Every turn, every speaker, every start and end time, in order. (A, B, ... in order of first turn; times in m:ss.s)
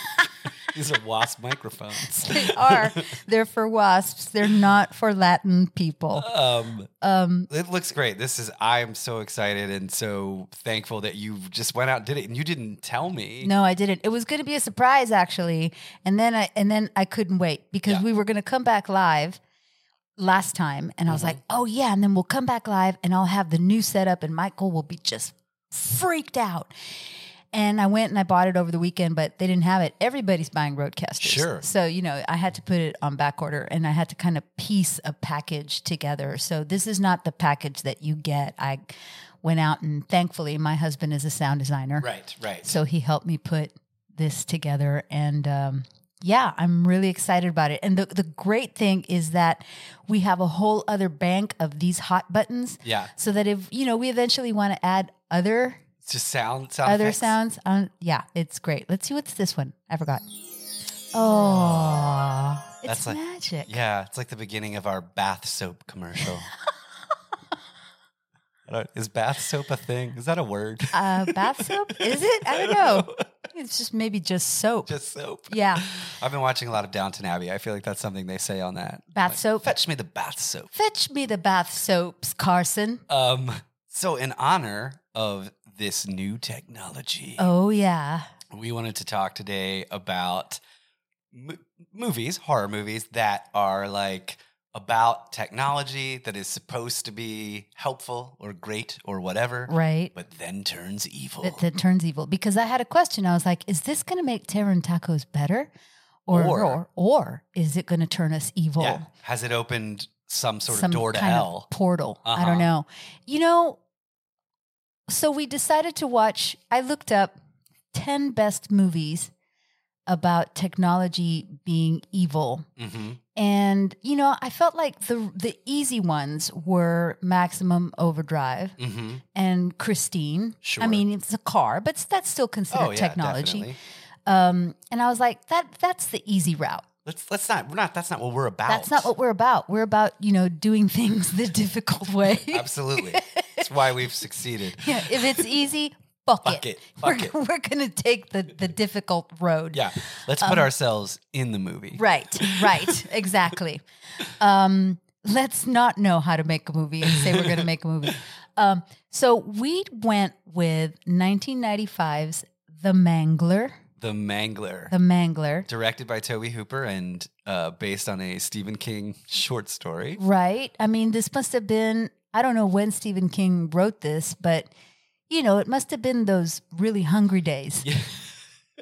0:00.6-0:03.1 A
0:01.9-0:06.3 B
0:06.1-0:06.9 A
0:07.0-0:07.5 B
0:07.5-0:13.5 A
0:13.4-0:19.4 B
0:20.2-0:26.7 B
0:21.1-0:21.4 A
0:27.5-0:42.1 B
0:31.2-0:31.6 A
0:42.0-0:42.7 A
0:42.6-0:55.8 B
0:52.8-0:53.1 A
0:56.0-0:57.4 A
0:56.8-1:00.2 B
1:01.1-1:03.7 B
1:01.4-1:02.1 A
1:02.8-1:06.5 A
1:08.7-1:13.2 A
1:10.9-1:14.9 B
1:14.9-1:20.7 A
1:15.5-1:15.9 B
1:19.1-1:19.7 B
1:20.7-1:23.0 B
1:23.1-1:27.5 A
1:27.4-1:28.3 B
1:28.5-1:30.6 A
1:31.3-1:41.6 A
1:39.7-1:40.1 B
1:41.4-1:45.7 B
1:46.2-1:49.1 B
1:46.3-1:46.8 A
1:48.8-1:51.7 A
1:50.7-1:53.8 B
1:52.2-1:52.7 A
1:55.1-1:57.3 B
1:57.9-1:59.3 B
2:00.1-2:02.7 B
2:02.8-2:03.2 A
2:03.3-2:08.8 B
2:08.8-2:09.2 A
2:09.3-2:13.7 B
2:10.6-2:11.0 A
2:12.7-2:13.8 A
2:14.3-2:16.8 B
2:17.0-2:19.1 A
2:18.7-2:23.7 B
2:22.5-2:25.5 A
2:24.8-2:30.7 B
2:26.4-2:27.3 A
2:29.7-2:33.1 A
2:31.9-2:43.8 B
2:37.0-2:37.6 A
2:44.0-2:44.9 A
2:44.9-2:45.7 B
2:45.7-2:50.2 A
2:50.2-2:54.7 B
2:55.3-2:57.9 B
2:57.8-2:58.4 A